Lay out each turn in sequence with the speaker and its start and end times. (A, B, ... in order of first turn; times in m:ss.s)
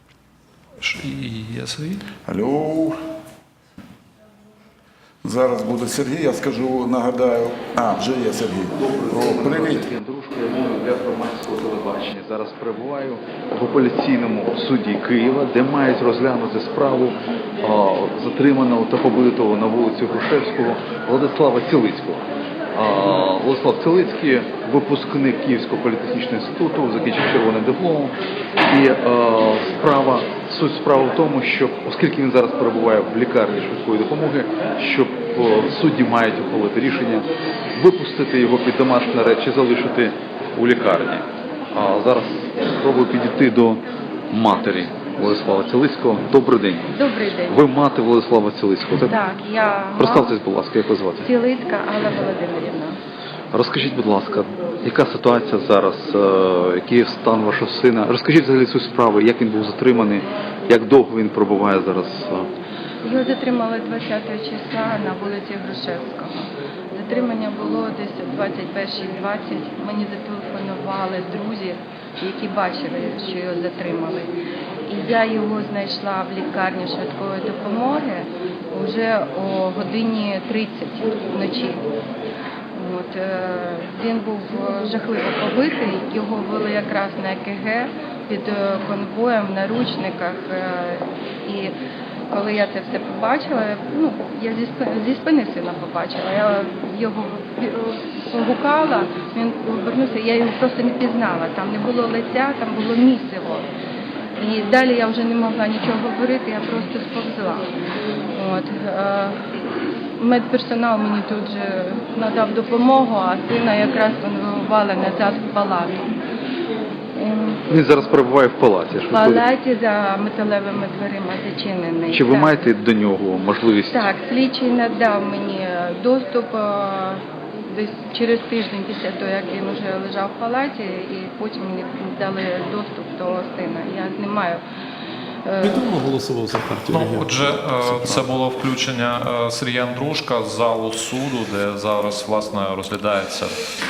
0:00.8-0:02.0 A
0:02.3-0:03.0 B
0:05.2-0:09.9 B
0:08.8-0:28.2 C
0:28.7-0:49.2 C
0:47.0-0:47.5 D
0:49.1-0:50.4 D
0:50.0-0:51.3 C
0:51.2-0:53.0 D
0:53.5-1:02.5 C
1:03.0-1:14.3 D
1:14.9-1:21.8 D
1:22.8-1:31.7 D
1:32.3-1:43.7 D
1:44.4-1:47.6 D
1:48.4-1:49.3 D
1:50.2-1:56.0 D
1:57.2-1:57.6 D
1:57.7-1:59.4 C
1:59.1-2:02.7 D
2:02.1-2:04.1 C
2:03.9-2:07.2 D
2:07.7-2:14.6 D
2:15.5-2:15.9 D
2:15.6-2:18.3 E
2:16.7-2:23.6 A